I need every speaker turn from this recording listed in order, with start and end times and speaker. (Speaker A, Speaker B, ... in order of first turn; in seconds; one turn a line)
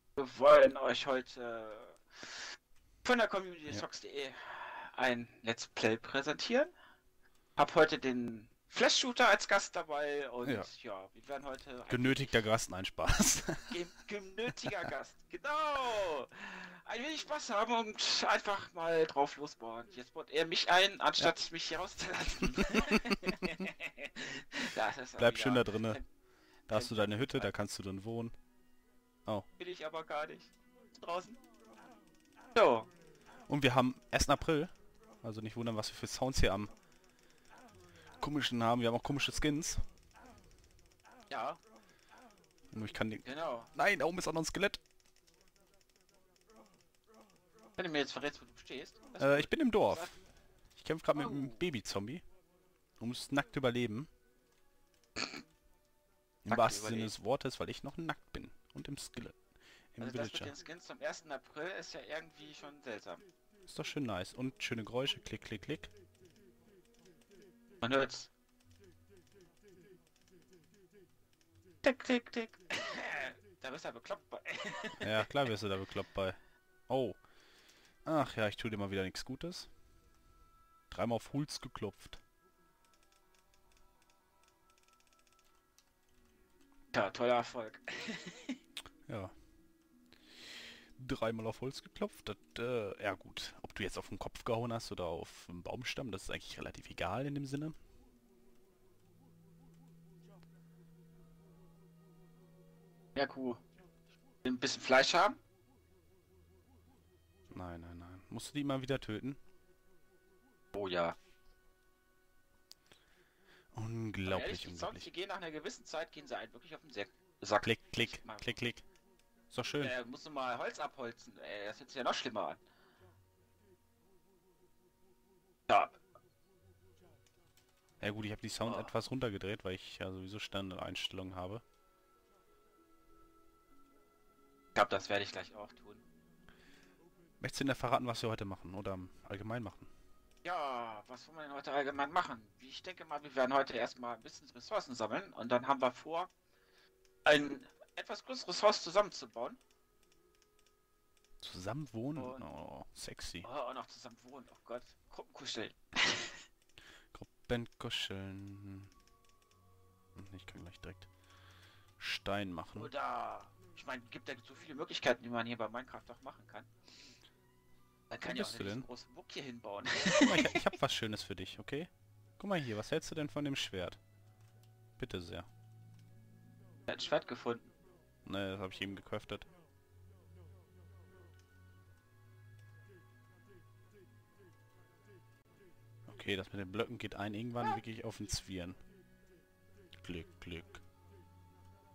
Speaker A: 0.2-2.5
Speaker A: 3.0-6.7
Speaker A: 7.6-12.4
Speaker B: 11.9-13.8
Speaker A: 13.7-26.0
Speaker B: 22.7-23.4
Speaker B: 25.2-26.0
Speaker B: 26.7-28.3
Speaker A: 26.7-27.5
Speaker A: 29.6-31.4
Speaker A: 32.5-32.9
Speaker B: 33.5-34.7
Speaker B: 35.2-36.7
Speaker B: 38.2-39.8
Speaker A: 41.3-41.6
Speaker B: 42.7-44.8
Speaker A: 43.2-43.7
Speaker A: 47.8-50.1
Speaker B: 49.2-50.2
Speaker B: 50.8-52.2
Speaker A: 51.2-51.6
Speaker B: 53.0-54.1
Speaker B: 56.4-59.4
Speaker A: 56.5-57.1
Speaker B: 59.9-60.5
Speaker A: 60.0-63.2
Speaker B: 63.7-65.9
Speaker A: 67.8-68.3
Speaker A: 71.8-75.3
Speaker B: 75.0-76.4
Speaker B: 76.9-77.2
Speaker B: 78.0-79.7
Speaker B: 80.9-82.2
Speaker A: 86.9-88.6
Speaker B: 89.1-89.3
Speaker B: 90.4-97.8
Speaker A: 103.2-103.6
Speaker A: 104.4-105.4
Speaker B: 107.5-109.4
Speaker A: 110.7-111.2
Speaker B: 113.7-115.1
Speaker A: 114.3-118.6
Speaker B: 117.6-118.8
Speaker B: 119.5-119.9
Speaker A: 119.8-122.6
Speaker A: 125.7-126.0
Speaker B: 128.0-131.6
Speaker A: 128.7-128.9
Speaker A: 134.8-136.0
Speaker B: 137.4-139.9
Speaker A: 140.4-146.3
Speaker A: 147.2-149.6
Speaker B: 151.4-153.5
Speaker A: 152.2-152.4
Speaker A: 153.4-156.4
Speaker B: 157.1-158.9
Speaker B: 160.2-161.1
Speaker B: 162.0-162.9
Speaker A: 162.8-166.7
Speaker A: 168.1-170.6
Speaker B: 168.2-168.9
Speaker B: 170.2-174.0
Speaker B: 175.0-175.5
Speaker A: 176.9-177.7
Speaker B: 178.3-179.5
Speaker B: 186.1-188.8
Speaker B: 190.0-190.8